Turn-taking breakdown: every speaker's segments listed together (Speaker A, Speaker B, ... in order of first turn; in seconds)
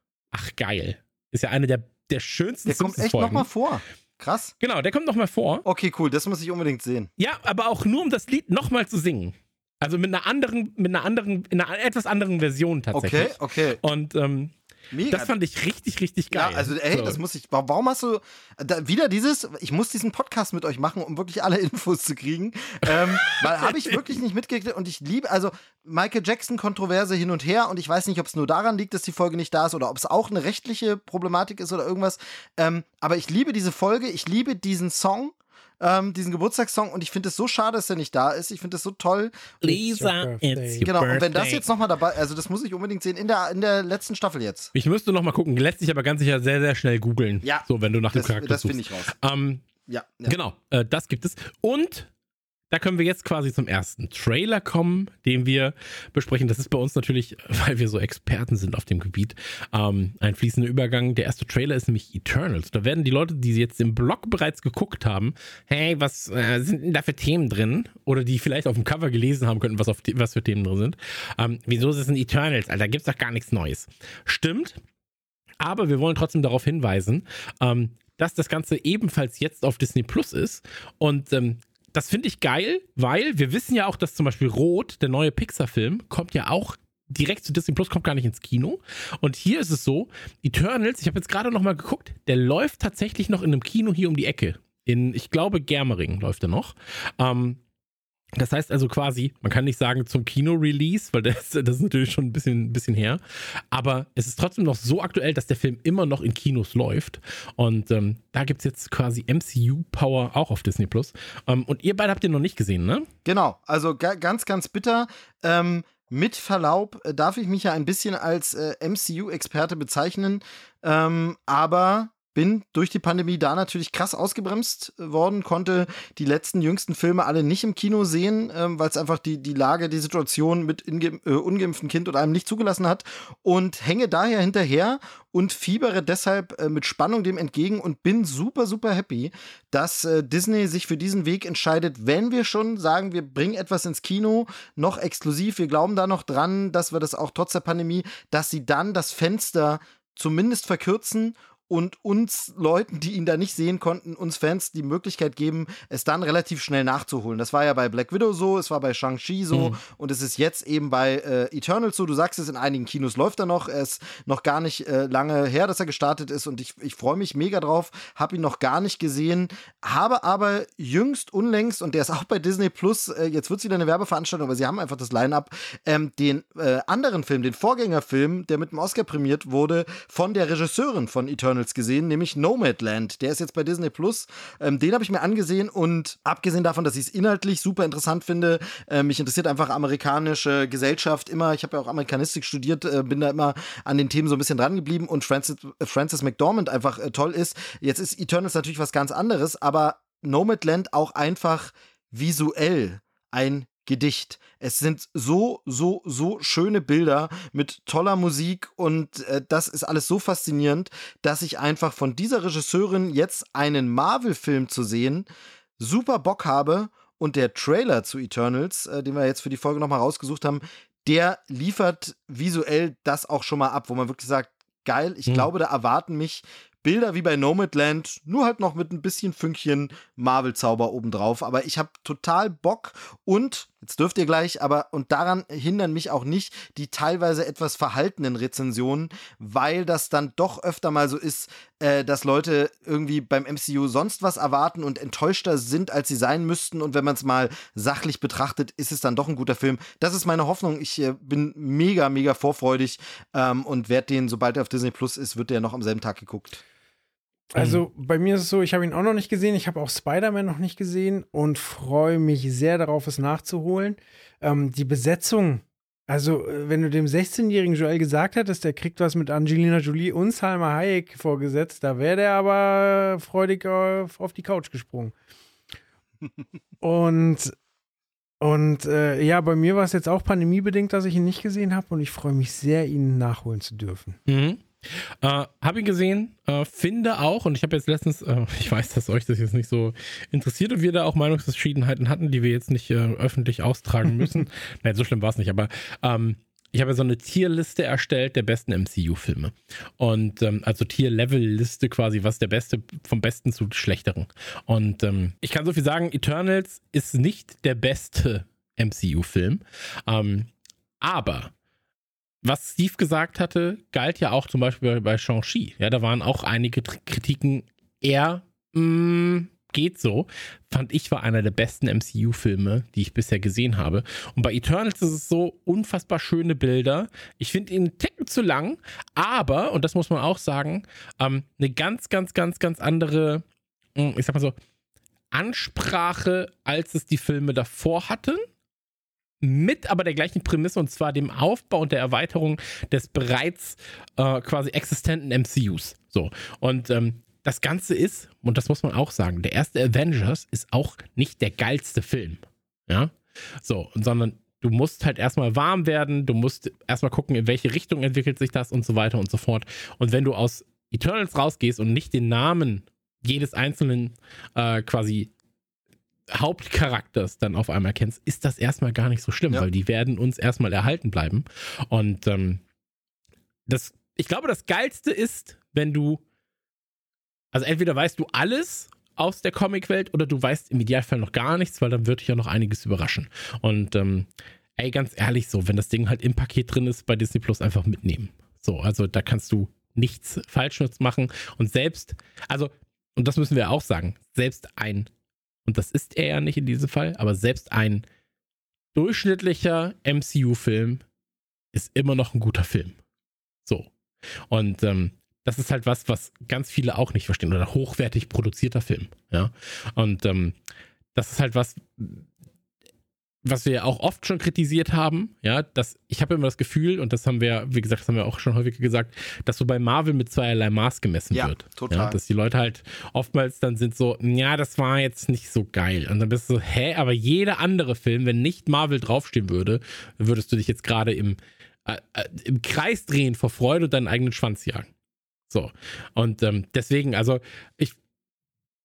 Speaker A: 0.3-3.5, 4.6-5.6, 7.2-14.5, 15.1-17.2, 22.9-24.0, 39.6-41.6, 44.7-49.6, 50.2-52.1, 52.7-74.8, 75.6-97.6, 98.4-103.2, 103.7-113.1, 159.5-159.8, 257.6-257.8, 284.3-310.5, 311.0-311.5, 312.4-333.4, 333.9-334.5, 335.3-338.4, 339.4-365.3, 366.3-372.6, 373.7-376.2, 377.5-395.1, 395.6-398.0, 398.9-401.0, 401.7-403.0, 404.5-410.6, 411.1-412.3, 413.4-434.9, 435.5-437.9
Speaker B: 2.7-4.5, 5.6-7.1, 12.9-13.8, 14.9-15.3, 16.3-39.3, 40.8-44.7, 47.4-49.1, 49.9-50.4, 113.2-215.3, 215.8-256.6, 421.3-422.2
Speaker C: 39.6-40.9, 257.5-275.1, 276.8-277.6, 278.4-284.2